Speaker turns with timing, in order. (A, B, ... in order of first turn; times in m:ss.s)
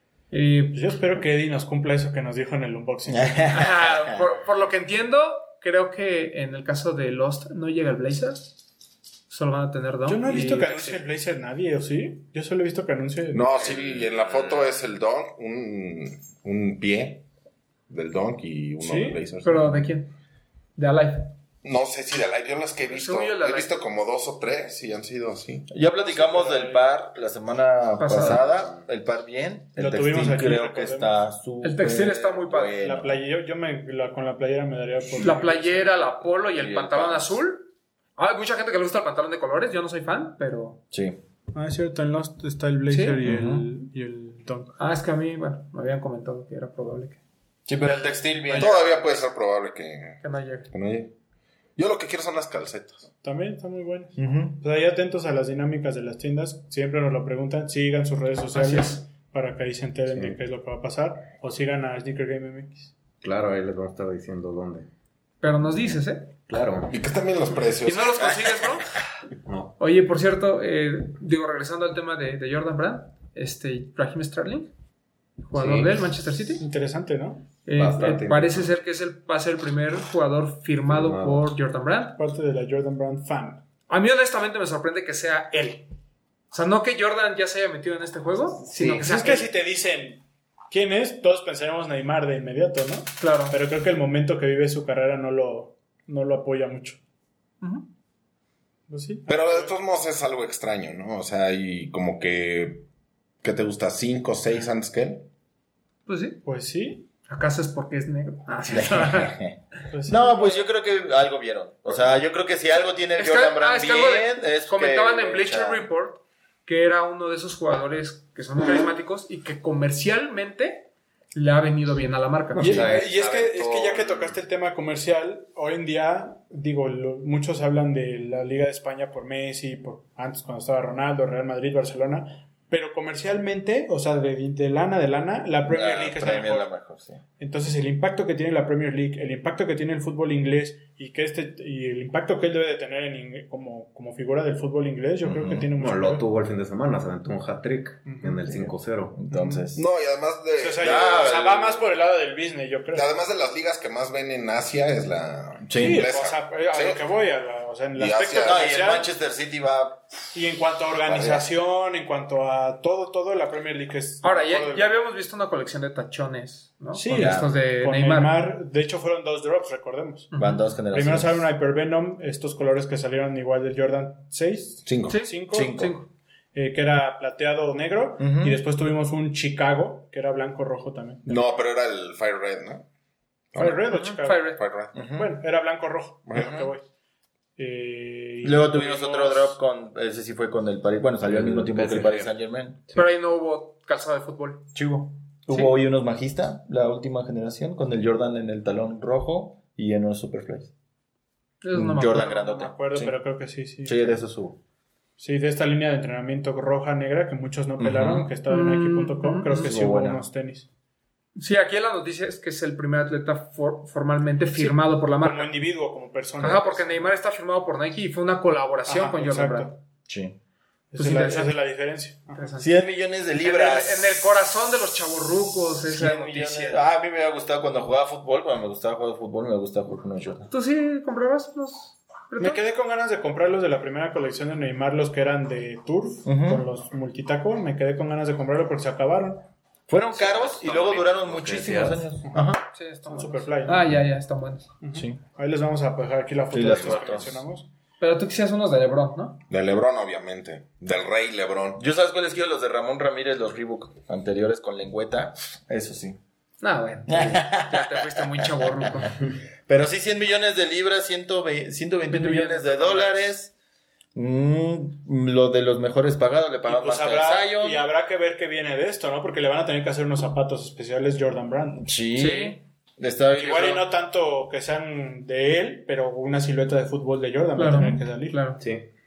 0:00.3-0:00.8 A
0:00.7-0:03.6 B
0:03.1-0:04.2 C
0:03.5-0:08.6 A
0:09.3-0:11.0 A
0:10.1-0:13.8 B
0:13.3-0:17.3 D
0:14.3-0:14.6 E
0:17.9-0:19.9 D
0:18.8-0:19.2 B
0:19.4-0:20.1 A
0:20.8-0:21.4 A
0:21.6-0:25.7 D
0:22.9-0:23.8 A
0:25.7-0:33.2 C
0:26.0-0:26.9 B
0:28.0-0:28.4 A
0:28.4-0:28.7 E
0:29.8-0:31.2 B
0:31.6-0:32.8 A
0:32.8-0:35.8 B
0:35.2-0:40.8 A
0:36.4-0:37.4 C
0:40.9-0:41.2 C
0:41.5-0:44.8 B
0:42.9-0:43.2 A
0:43.2-0:43.7 C
0:44.8-0:47.2 A
0:47.7-0:49.1 C
0:48.6-0:51.1 D
0:50.2-0:50.7 A
0:51.8-0:53.1 D
0:53.2-1:02.9 B
0:54.2-0:54.6 C
0:58.5-0:59.0 A
1:00.1-1:00.4 E
1:03.2-1:04.9 E
1:05.4-1:06.3 A
1:06.5-1:07.0 E
1:06.9-1:08.4 D
1:07.8-1:08.9 A
1:09.4-1:09.8 E
1:09.8-1:14.7 A
1:15.5-1:16.6 A
1:15.5-1:16.0 E
1:16.6-1:17.5 B
1:17.6-1:22.2 A
1:17.8-1:18.7 E
1:20.9-1:21.5 E
1:22.2-1:23.6 B
1:23.9-1:25.9 A
1:26.5-1:29.5 A
1:28.6-1:29.3 E
1:28.9-1:37.0 B
1:33.2-1:33.6 A
1:38.9-1:39.7 B
1:39.3-1:42.8 D
1:43.4-1:45.3 D
1:46.1-1:46.4 A
1:46.4-1:47.1 B
1:47.3-1:49.4 A
1:48.7-1:55.9 C
1:49.9-1:50.6 B
1:53.2-2:03.0 A
2:02.6-2:04.4 E
2:02.6-2:16.7 B
2:15.7-2:17.2 C
2:17.4-2:26.2 B
2:25.2-2:25.7 C
2:25.8-2:29.2 E
2:28.1-2:28.4 B
2:28.5-2:29.8 C
2:29.3-2:29.6 B
2:29.7-2:31.5 D
2:30.6-2:33.1 B
2:30.8-2:31.8 C
2:32.9-2:37.0 D
2:35.7-2:36.1 C
2:35.8-2:39.1 B
2:38.0-2:38.7 D
2:38.4-2:40.0 C
2:40.3-2:44.9 B
2:41.0-2:41.5 C
2:44.2-2:48.4 A
2:46.9-2:50.3 B
2:47.1-2:47.5 C
2:50.3-2:50.6 A
2:50.4-2:51.4 C
2:50.9-2:55.9 B
2:54.9-2:55.2 D
2:55.1-2:56.1 A
2:55.5-2:55.9 C
2:56.5-3:01.6 B
2:58.2-2:58.6 C
3:01.3-3:02.9 D
3:03.5-3:04.0 D
3:03.6-3:06.8 B
3:03.9-3:04.6 A
3:04.6-3:05.0 D
3:04.9-3:05.4 C
3:06.3-3:06.7 D
3:07.6-3:09.6 B
3:08.4-3:12.8 C
3:11.2-3:12.3 E
3:12.9-3:14.8 A
3:14.8-3:20.7 C
3:21.6-3:22.7 A
3:21.7-3:23.2 C
3:22.4-3:24.2 B
3:23.8-3:24.6 C
3:25.2-3:30.7 B
3:27.8-3:28.3 C
3:28.5-3:29.8 A
3:29.6-3:30.2 C
3:31.4-3:35.5 A
3:34.5-3:37.1 B
3:36.4-3:39.8 A
3:38.9-3:39.7 B
3:40.1-3:40.4 C
3:40.9-3:42.5 B
3:41.0-3:41.6 A
3:42.3-3:42.7 A
3:42.6-3:44.3 C
3:43.4-3:46.8 A
3:45.9-3:50.5 C
3:50.5-3:52.6 A
3:52.4-3:59.5 B
3:56.2-3:56.6 C
3:59.9-4:02.6 C
4:00.2-4:02.1 E
4:02.7-4:04.7 A
4:03.1-4:03.9 B
4:04.8-4:07.7 B
4:06.5-4:07.4 C
4:08.0-4:09.4 A
4:09.5-4:11.8 D
4:11.8-4:16.2 C
4:16.6-4:19.2 A
4:17.1-4:19.1 C
4:19.7-4:23.5 C
4:22.1-4:23.3 A
4:24.1-4:27.8 C
4:26.7-4:31.8 B
4:31.7-4:33.8 C
4:32.2-4:32.6 A
4:33.3-4:38.4 B
4:37.6-4:38.6 A
4:38.6-4:38.9 E